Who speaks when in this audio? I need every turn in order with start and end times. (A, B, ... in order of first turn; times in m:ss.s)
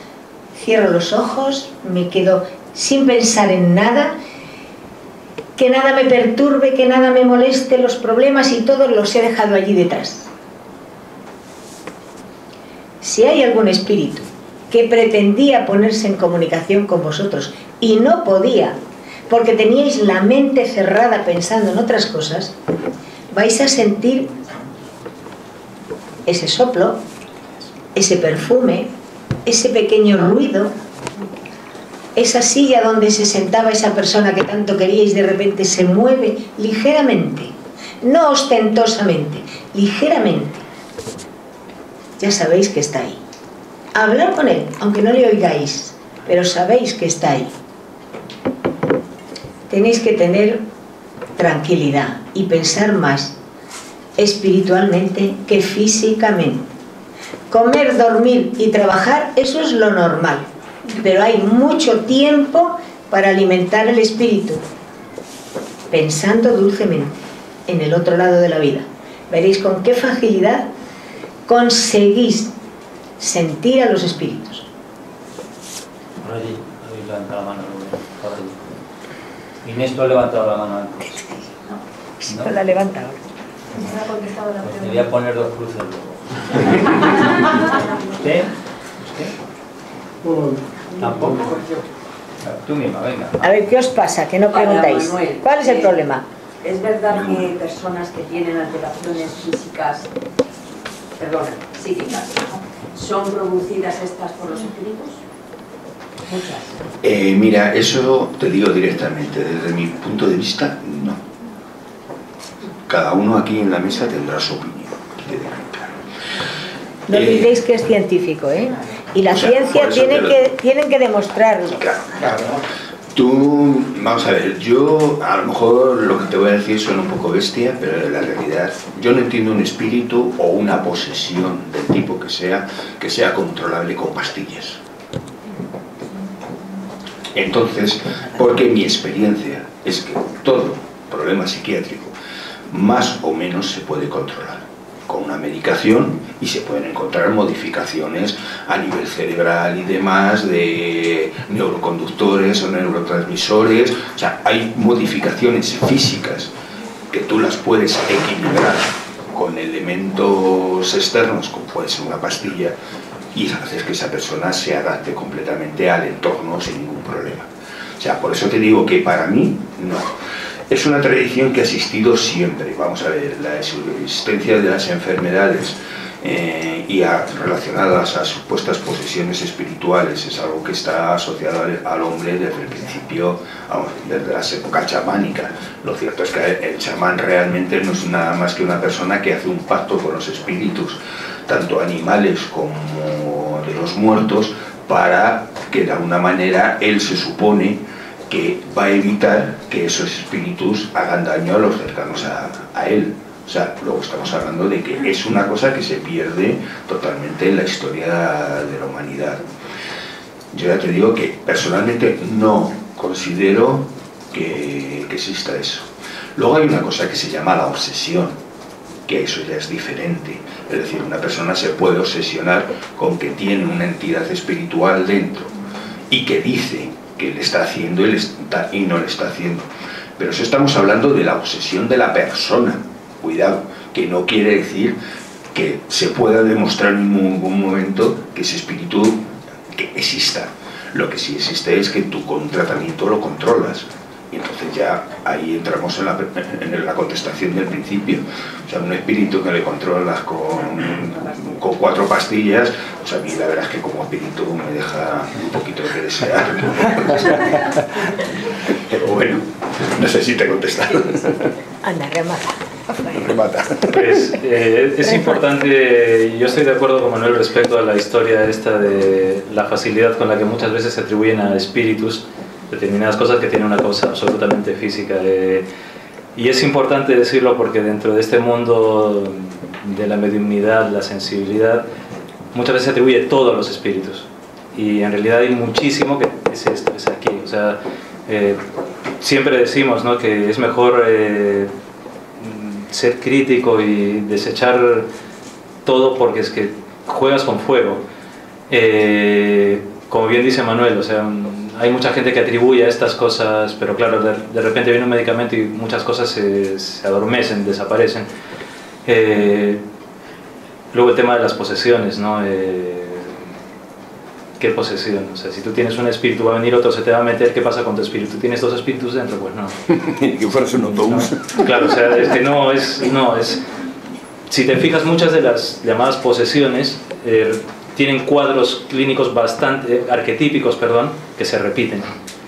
0:00.6-0:04.1 A
0:05.6-0:10.3 A
0:13.0-0:18.8 A
0:19.3-0:22.5 A
0:23.3-0:24.3 A
0:26.3-0:27.0 A
0:28.0-0:28.9 A
0:29.4-0:30.7 A
0:32.2-0:40.6 A
0:42.2-0:43.2 A
0:44.0-0:47.5 A
0:49.7-0:50.6 A
0:51.4-0:53.3 A
0:54.2-0:56.7 A
0:57.5-1:04.6 A
1:05.9-1:10.7 A
1:11.5-1:12.5 A
1:13.2-1:14.7 A
1:16.2-1:18.6 B
1:19.6-1:21.3 B
1:22.2-1:23.2 A
1:22.3-1:22.6 B
1:24.6-1:27.7 B
1:28.2-1:29.3 B
1:31.0-1:31.8 C
1:31.0-1:31.6 B
1:32.4-1:33.5 B
1:33.4-1:36.2 A
1:34.5-1:36.0 C
1:36.6-1:40.1 C
1:41.2-1:45.2 C
1:46.3-1:46.8 C
1:47.0-1:51.2 D
1:52.8-1:56.0 D
1:57.1-2:01.8 A
1:57.1-1:57.6 D
1:59.3-2:00.4 D
2:01.7-2:02.6 D
2:03.1-2:14.8 D
2:17.3-2:22.1 D
2:22.7-2:36.5 D
2:37.1-2:42.7 D
2:43.3-2:47.5 D
2:48.0-2:50.1 D
2:50.7-3:29.4 D
3:30.5-3:38.4 D
3:39.0-3:45.5 D
3:46.1-3:49.7 D
3:50.2-3:55.0 D
3:55.5-4:17.6 D
4:18.7-4:21.4 D
4:21.8-4:22.6 A
4:23.1-4:24.0 D
4:23.9-4:35.7 E
4:36.3-4:41.8 E
4:42.5-4:48.6 E
4:49.2-4:51.7 E
4:52.4-4:55.1 E
4:55.8-4:58.0 E
4:58.7-5:08.3 E
5:09.0-5:09.8 E
5:10.9-5:13.4 E
5:14.6-5:19.8 E
5:19.9-5:21.8 D
5:21.5-5:23.6 E
5:24.5-5:32.1 E